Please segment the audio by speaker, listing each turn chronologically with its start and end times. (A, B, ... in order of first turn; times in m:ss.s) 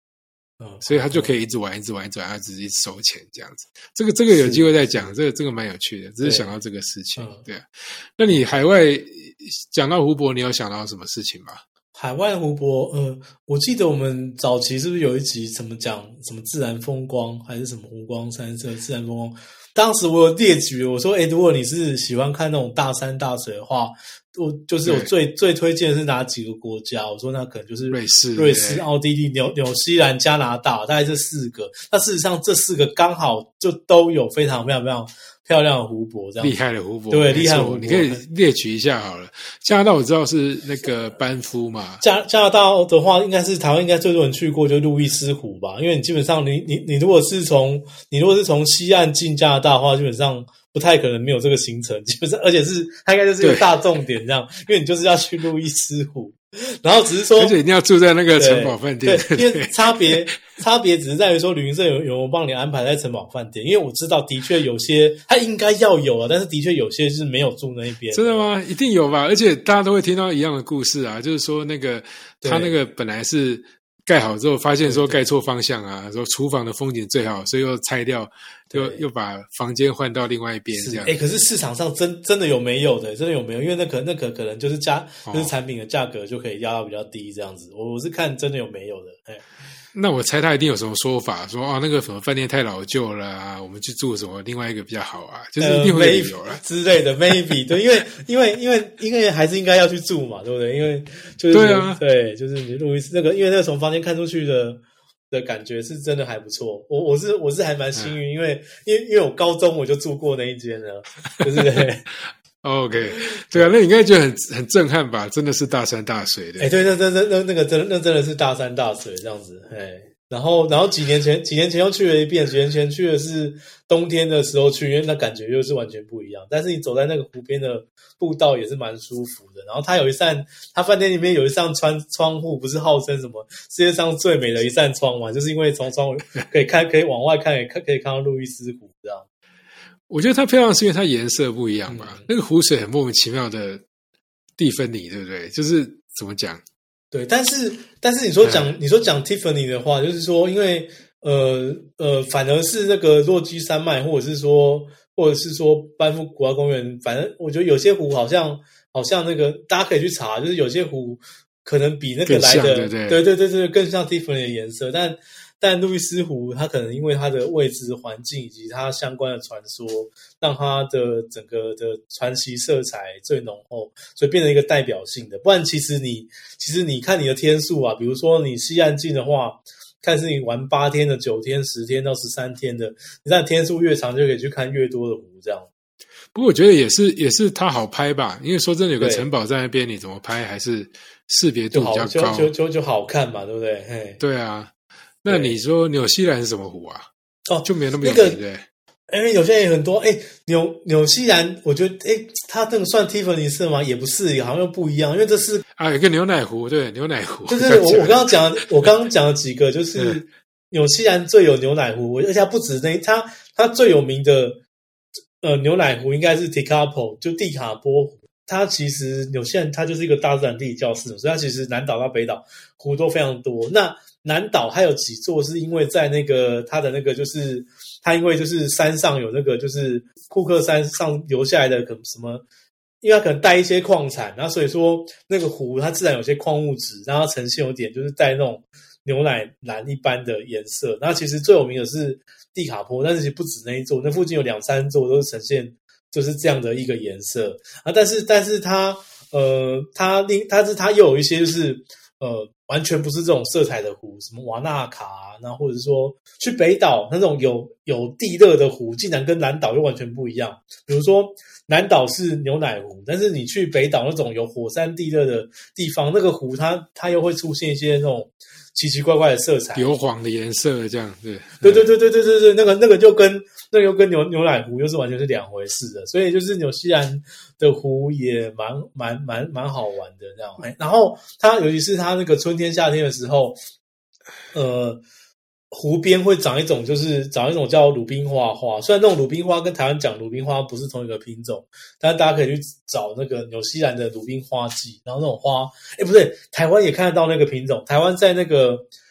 0:00.6-0:01.3 A
0:00.8-0:11.6 B
0:04.3-0:05.1 A
0:06.2-0:06.5 A
0:07.2-0:07.4 A
0:11.9-0:36.6 A
0:24.8-0:25.1 B
0:27.9-0:28.8 B
0:36.4-0:42.0 B
0:37.1-0:38.2 A
0:42.0-0:57.6 A
0:57.4-1:00.2 B
0:58.3-1:08.5 A
1:08.1-1:21.2 B
1:12.4-1:12.7 A
1:14.8-1:15.3 A
1:18.7-1:19.0 A
1:20.7-1:29.4 A
1:25.3-1:25.5 B
1:29.9-1:36.6 B
1:35.6-1:52.1 A
1:41.5-1:42.0 B
1:52.6-1:56.7 B
1:53.1-1:53.7 A
1:56.6-2:19.2 A
2:20.1-2:23.8 B
2:21.9-2:22.3 A
2:24.6-2:26.6 B
2:27.1-3:05.7 A
2:28.4-2:28.7 B
2:42.2-2:43.2 B
3:06.3-3:12.5 B
3:09.0-3:09.3 A
3:11.7-3:14.2 A
3:14.2-3:14.7 B
3:15.2-3:17.1 B
3:15.3-3:15.6 A
3:17.5-3:18.4 A
3:17.6-3:18.6 B
3:19.1-3:25.6 A
3:25.7-3:28.8 B
3:27.5-3:34.6 A
3:30.0-3:30.2 B
3:35.4-3:52.4 A
3:53.0-4:29.9 A
4:29.7-4:31.9 B
4:31.6-4:43.6 A
4:44.5-4:45.0 A
4:45.7-4:58.9 A